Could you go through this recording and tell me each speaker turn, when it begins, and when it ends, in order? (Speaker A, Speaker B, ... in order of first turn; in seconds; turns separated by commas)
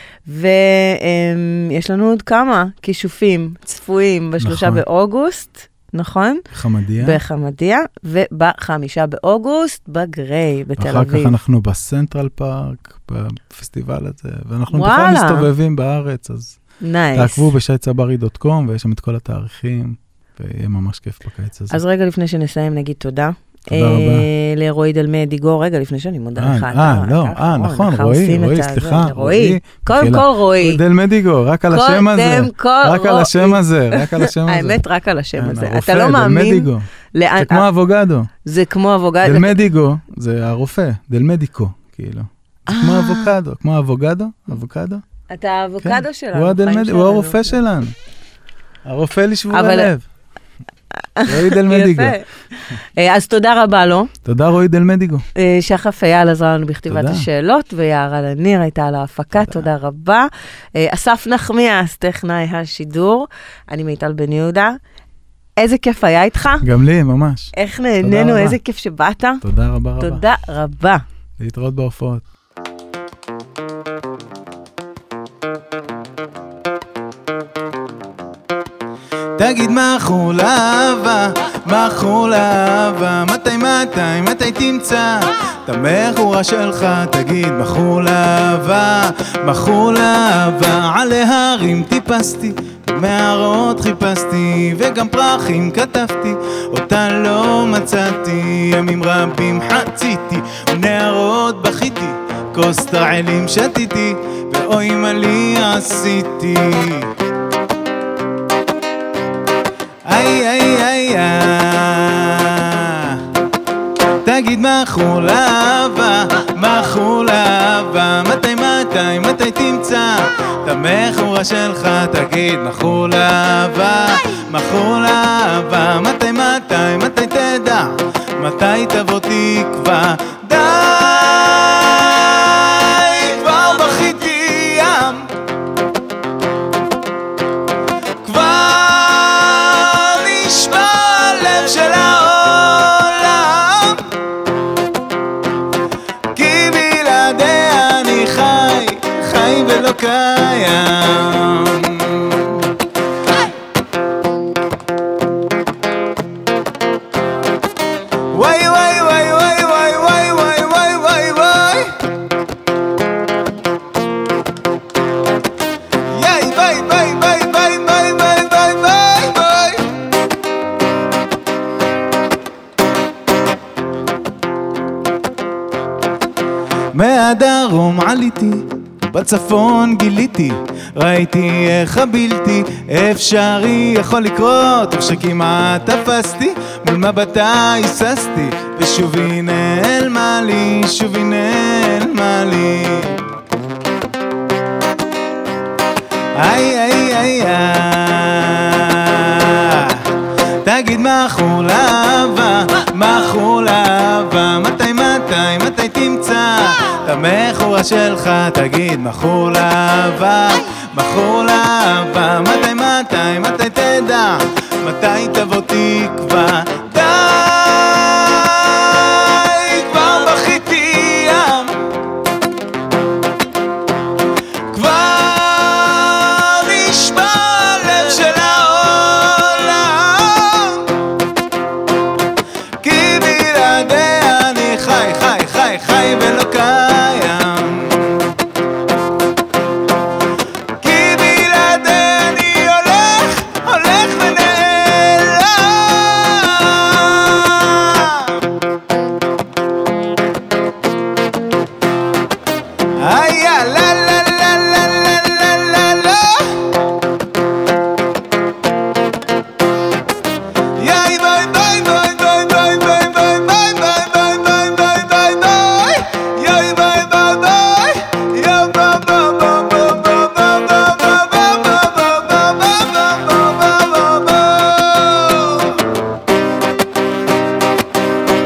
Speaker A: 0.3-6.4, Speaker B: 4.4-4.8, Speaker B: 6.5-7.2, Speaker A: 7.0-11.4, Speaker B: 10.8-16.6, Speaker A: 14.7-15.5, Speaker A: 16.8-17.5, Speaker B: 17.1-21.8, Speaker A: 21.7-30.8, Speaker B: 23.7-24.3, Speaker B: 26.4-34.8, Speaker A: 31.7-37.7, Speaker B: 35.4-36.9, Speaker B: 37.4-38.3, Speaker A: 38.4-39.7, Speaker B: 39.2-45.0, Speaker A: 42.7-43.3, Speaker A: 45.3-47.6, Speaker B: 45.8-47.9, Speaker B: 48.9-50.0, Speaker A: 49.5-49.9, Speaker A: 51.2-54.1, Speaker B: 51.3-52.2, Speaker B: 54.2-55.2, Speaker A: 55.4-64.8, Speaker B: 56.9-57.3, Speaker B: 59.4-59.7, Speaker A: 65.6-66.7, Speaker B: 66.6-68.6, Speaker A: 67.5-69.4, Speaker B: 69.4-70.2, Speaker A: 70.0-71.0, Speaker B: 71.4-72.2, Speaker B: 79.4-107.1, Speaker B: 110.1-113.2, Speaker B: 114.2-135.3, Speaker B: 138.2-144.1, Speaker B: 146.3-152.7, Speaker B: 158.3-162.0, Speaker B: 166.1-169.9, Speaker B: 176.9-193.2, Speaker B: 196.4-221.9, Speaker B: 224.7-231.0, Speaker B: 232.8-238.3, Speaker B: 240.8-248.5, Speaker B: 253.0-256.7, Speaker B: 260.8-275.8